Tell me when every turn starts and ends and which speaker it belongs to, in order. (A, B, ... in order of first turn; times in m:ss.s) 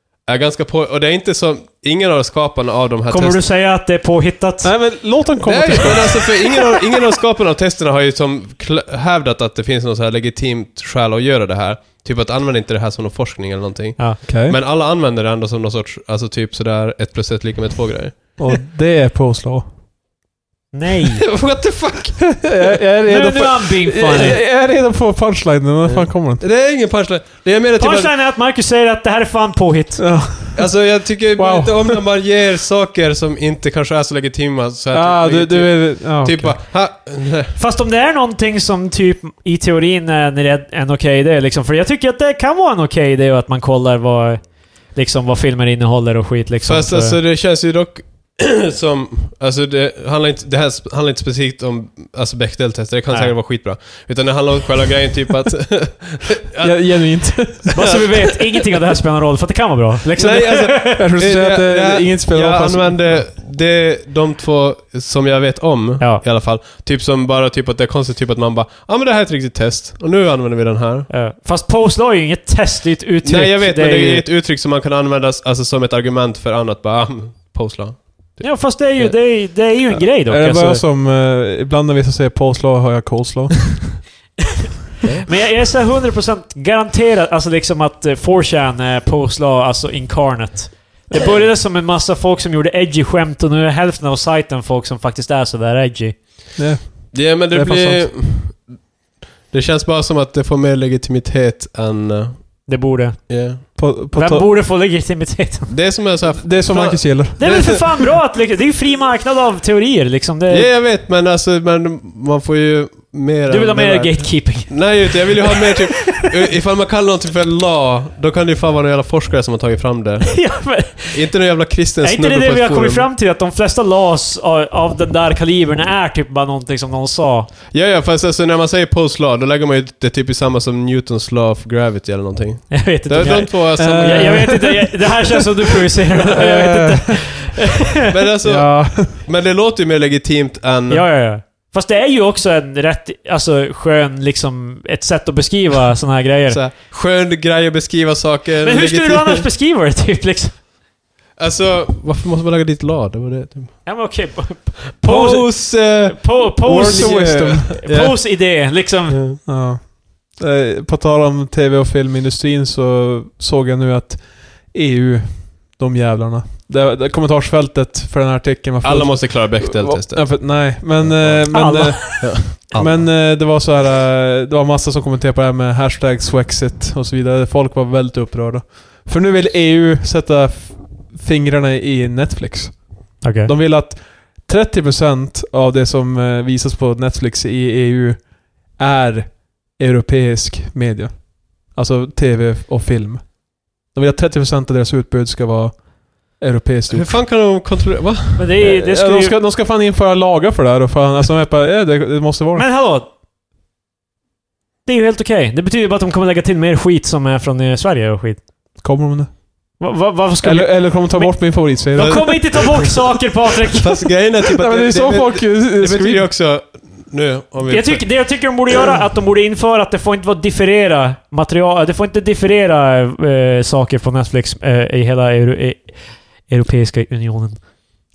0:00.2-0:03.4 A
0:03.1-0:04.8 B
0:04.6-0:06.4 C
0:05.4-0:18.4 A
0:14.3-0:14.6 C
0:18.4-0:19.6 C
0:20.7-0:21.2 B
0:21.2-0:22.4 A
0:22.4-0:26.4 C
0:23.1-0:24.4 B
0:25.8-0:28.1 A
0:27.8-0:30.1 B
0:30.0-0:30.7 C
0:30.6-0:37.6 A
0:31.4-0:32.0 C
0:34.9-0:36.6 C
0:37.6-0:47.2 B
0:46.6-0:58.0 A
0:56.6-0:57.9 C
0:57.7-1:01.1 B
1:00.2-1:11.1 A
1:01.0-1:03.1 C
1:11.1-1:14.3 B
1:13.2-1:19.2 A
1:18.4-1:20.8 B
1:19.9-1:24.0 C
1:25.2-1:36.2 B
1:36.6-1:38.1 C
1:37.1-1:38.9 A
1:39.5-1:42.8 A
1:42.7-1:45.9 B
1:43.3-1:43.6 A
1:43.8-1:44.5 C
1:45.7-1:48.1 A
1:46.4-1:47.7 C
1:47.4-1:50.7 B
1:50.5-2:03.1 A
1:53.5-1:56.2 B
2:00.3-2:01.3 B
2:02.0-2:07.5 B
2:07.7-2:14.8 A
2:12.7-2:17.7 B
2:13.8-2:15.4 C
2:16.0-2:17.2 C
2:18.0-2:21.1 A
2:18.4-2:19.2 C
2:20.9-2:26.6 B
2:26.5-2:29.4 A
2:28.6-2:30.6 B
2:31.4-2:34.2 A
2:33.8-2:39.2 B
2:35.0-2:38.4 A
2:36.6-2:37.8 C
2:39.1-2:39.4 A
2:39.5-3:17.2 C
2:48.8-2:53.1 A
2:51.5-2:52.4 B
3:03.2-3:03.5 B
3:16.9-3:18.5 A
3:18.4-3:19.4 B
3:18.6-3:22.7 C
3:22.6-3:23.1 B
3:24.8-3:28.5 B
3:28.8-3:29.4 C
3:29.8-3:33.9 B
3:30.4-3:32.6 C
3:32.0-3:33.0 A
3:33.7-3:38.6 A
3:34.5-3:36.3 C
3:37.7-3:47.6 B